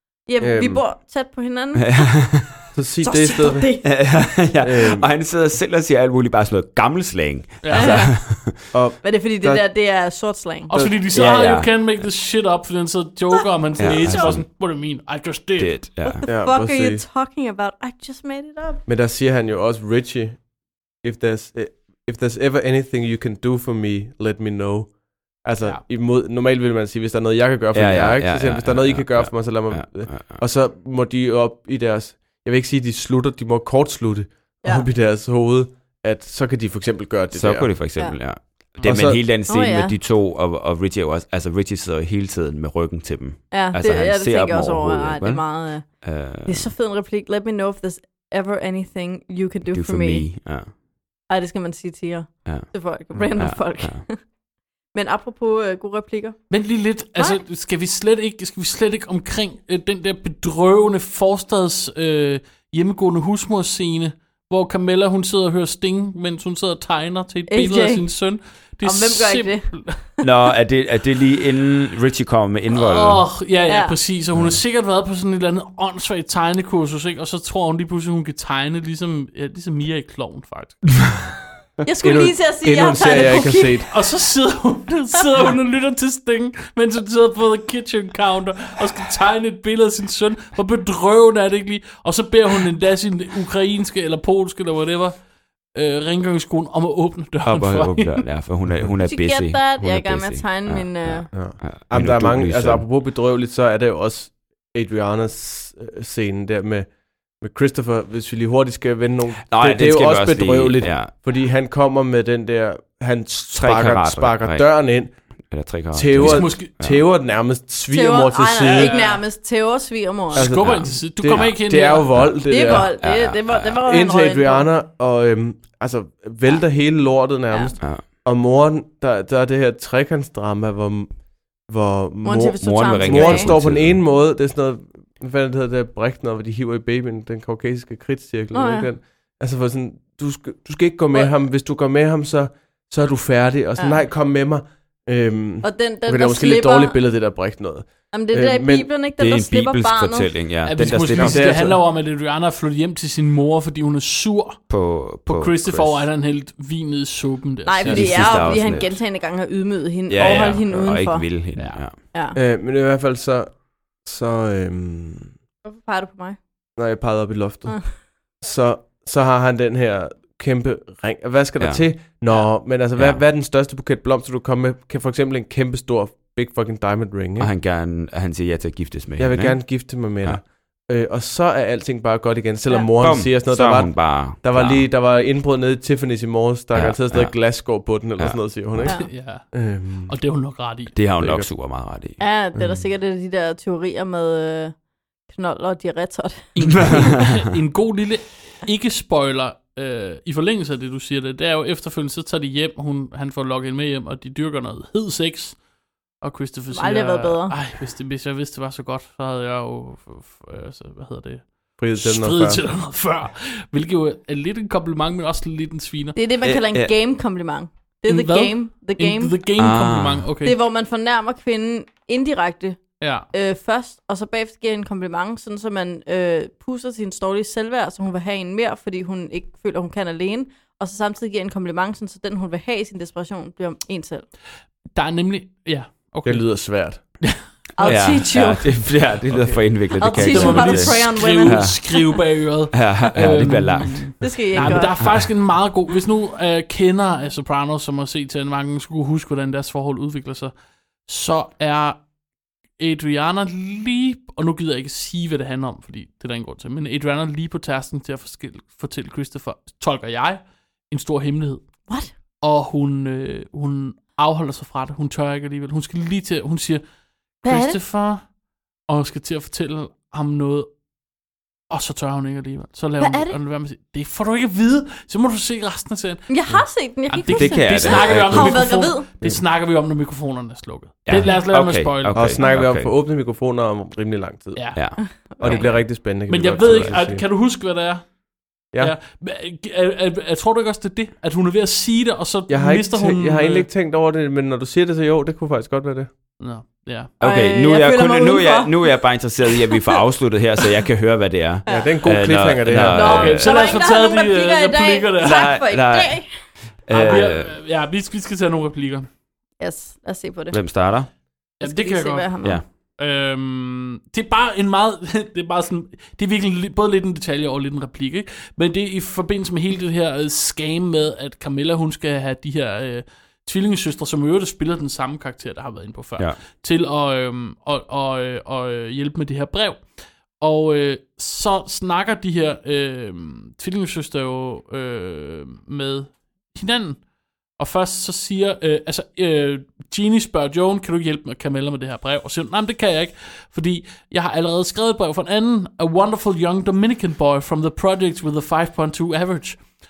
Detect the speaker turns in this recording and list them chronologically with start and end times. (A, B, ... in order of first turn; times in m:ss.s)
0:00.3-0:02.2 A
0:00.4-0:00.8 B
0:01.8-0:02.6 C
0:02.7-0:03.7 B
0:03.0-0:03.9 A
0:03.8-0:08.6 C
0:04.6-0:05.1 B
0:07.6-0:07.9 D
0:07.7-0:08.2 A
0:08.7-0:09.6 B
0:09.0-0:10.7 A
0:10.7-0:15.8 D
0:10.7-0:11.0 B
0:11.1-0:12.1 C
0:13.8-0:14.5 C
0:13.8-0:14.4 A
0:15.6-0:16.3 C
0:16.1-0:18.8 A
0:16.3-0:17.0 B
0:18.9-0:20.4 B
0:21.0-0:37.7 B
0:27.7-0:30.4 C
0:37.3-0:46.7 C
0:38.8-0:39.2 B
0:39.5-0:40.0 A
0:43.5-0:45.8 A
0:46.4-0:50.3 A
0:49.7-0:50.7 C
0:51.3-0:54.2 A
0:52.4-0:54.0 C
0:54.9-0:56.4 A
0:56.5-1:10.0 D
1:07.5-1:08.0 A
1:08.8-1:09.7 A
1:10.2-1:13.3 C
1:12.7-1:21.0 D
1:13.7-1:14.0 A
1:21.8-1:23.8 A
1:22.0-1:23.9 B
1:23.9-1:35.2 D
1:35.7-1:38.3 D
1:37.4-1:42.9 C
1:39.0-1:41.3 A
1:41.3-1:46.9 B
1:47.4-1:55.1 B
1:49.5-1:51.1 C
1:53.6-1:54.7 C
1:55.5-1:57.0 C
1:55.9-1:59.0 B
1:56.2-1:56.7 D
1:57.9-2:00.4 A
1:58.6-1:59.2 D
2:00.3-2:02.2 D
2:00.4-2:02.9 B
2:00.5-2:01.6 C
2:02.2-2:03.8 C
2:02.5-2:04.7 A
2:03.8-2:11.1 B
2:11.7-2:28.9 B
2:12.2-2:13.5 A
2:12.6-2:14.0 C
2:18.5-2:18.9 A
2:23.8-2:24.0 A
2:25.6-2:27.0 A
2:28.1-2:30.3 A
2:29.2-2:31.7 C
2:30.6-2:34.6 D
2:31.1-2:31.8 B
2:34.7-2:36.1 C
2:35.3-2:38.9 D
2:37.6-2:41.3 A
2:37.8-2:38.9 C
2:40.1-2:42.0 C
2:40.2-2:40.6 D
2:41.6-2:41.8 D
2:42.4-2:45.3 B
2:45.6-2:46.4 A
2:46.8-2:47.9 B
2:48.4-2:57.5 B
2:51.6-2:51.8 C
2:53.0-2:53.2 C
2:57.4-3:00.4 C
2:59.2-3:09.0 B
3:03.0-3:04.8 C
3:06.7-3:07.4 C
3:08.2-3:08.9 C
3:09.0-3:11.0 D
3:09.5-3:10.1 B
3:11.0-3:12.2 C
3:11.2-3:11.5 B
3:12.2-3:14.7 A
3:15.3-3:17.0 A
3:16.6-3:25.6 D
3:26.2-3:36.2 D
3:26.7-3:27.6 A
3:31.8-3:32.6 B
3:36.2-3:39.3 A
3:36.4-3:36.9 C
3:38.1-3:40.6 D
3:39.6-3:40.3 C
3:40.4-3:42.8 A
3:43.0-3:43.3 D
3:43.3-3:54.2 A
3:55.0-3:56.4 D
3:56.2-3:57.0 B
3:57.8-3:58.8 A
3:57.8-4:01.8 C
3:59.3-3:59.6 B
4:00.0-4:02.2 A
4:00.1-4:10.5 D
4:02.7-4:05.3 C
4:04.2-4:05.1 A
4:11.1-4:12.0 D
4:12.8-4:21.6 D
4:22.4-4:26.8 D
4:27.4-4:27.8 A
4:27.4-4:28.2 D
4:28.9-4:30.7 D
4:31.7-4:36.3 D
4:33.0-4:33.4 A
4:36.3-4:39.1 A
4:37.1-4:42.4 D
4:37.3-4:38.7 C
4:41.1-4:42.9 C
4:42.1-4:47.2 B
4:44.6-4:44.8 D
4:44.8-4:45.6 C
4:45.0-4:45.7 A
4:45.4-4:48.1 D
4:46.6-4:47.0 C
4:48.8-4:53.7 D
4:52.5-4:56.1 B
4:56.4-4:57.1 D
4:57.2-5:03.6 C
4:57.2-4:59.7 A
5:01.7-5:02.0 A
5:01.7-5:03.4 B
5:02.9-5:06.3 A
5:02.9-5:05.6 D
5:05.2-5:06.2 C
5:06.9-5:07.6 C
5:07.0-5:09.1 D
5:09.6-5:10.6 A
5:10.5-5:11.1 C
5:11.6-5:12.3 D
5:11.6-5:12.6 A
5:13.0-5:29.8 D
5:30.4-5:37.0 D
5:37.6-5:49.6 D